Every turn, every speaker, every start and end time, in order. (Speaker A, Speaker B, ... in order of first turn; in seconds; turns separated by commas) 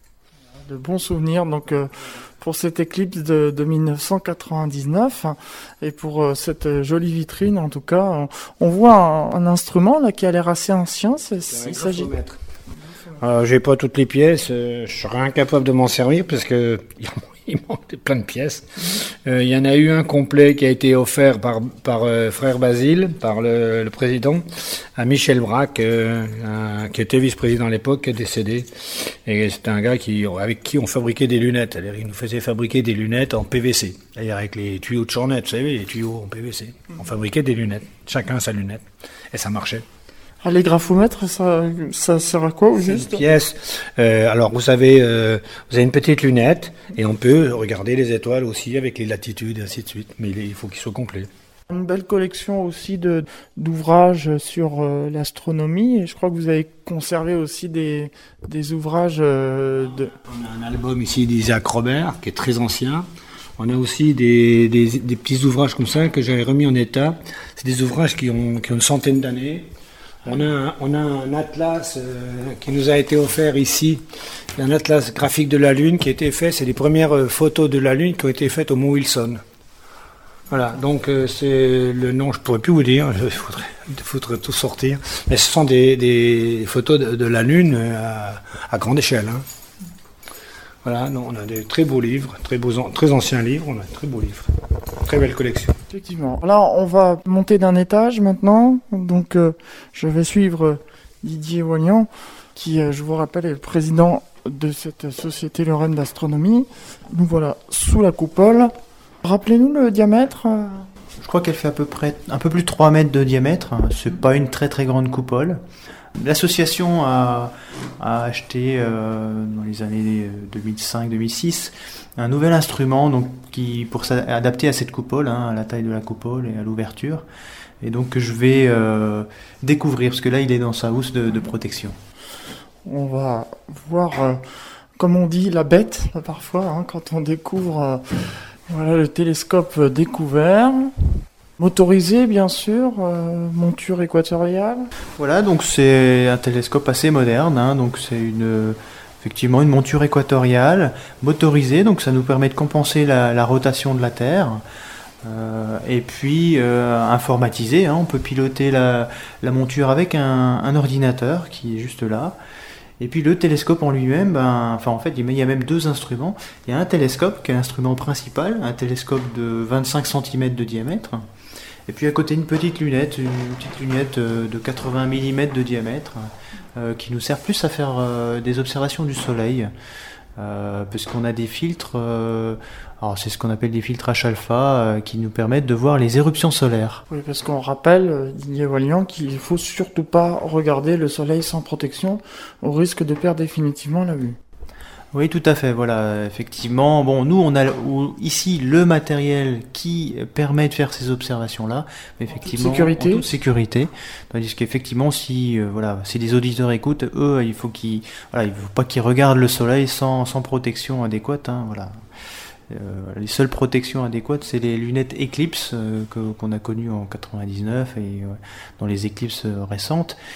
Speaker A: 0.6-12.1, Speaker B: 11.5-12.4, Speaker B: 13.2-39.8, Speaker A: 40.4-43.2, Speaker B: 42.8-51.3, Speaker A: 51.7-60.1, Speaker B: 60.1-63.0, Speaker B: 63.6-69.7, Speaker B: 70.2-74.0, Speaker B: 74.5-79.4, Speaker B: 80.5-89.4, Speaker B: 90.8-95.8, Speaker A: 95.9-108.7, Speaker A: 109.2-110.9, Speaker C: 111.2-115.6, Speaker C: 116.2-127.2, Speaker C: 127.8-132.0, Speaker A: 132.8-134.4, Speaker A: 135.0-138.0, Speaker A: 138.7-144.9, Speaker C: 145.2-154.6, Speaker C: 155.2-162.3, Speaker C: 163.0-171.2, Speaker C: 171.9-179.7, Speaker C: 180.4-187.0, Speaker A: 187.1-194.4, Speaker C: 195.1-212.0, Speaker A: 202.4-203.2, Speaker C: 212.7-220.2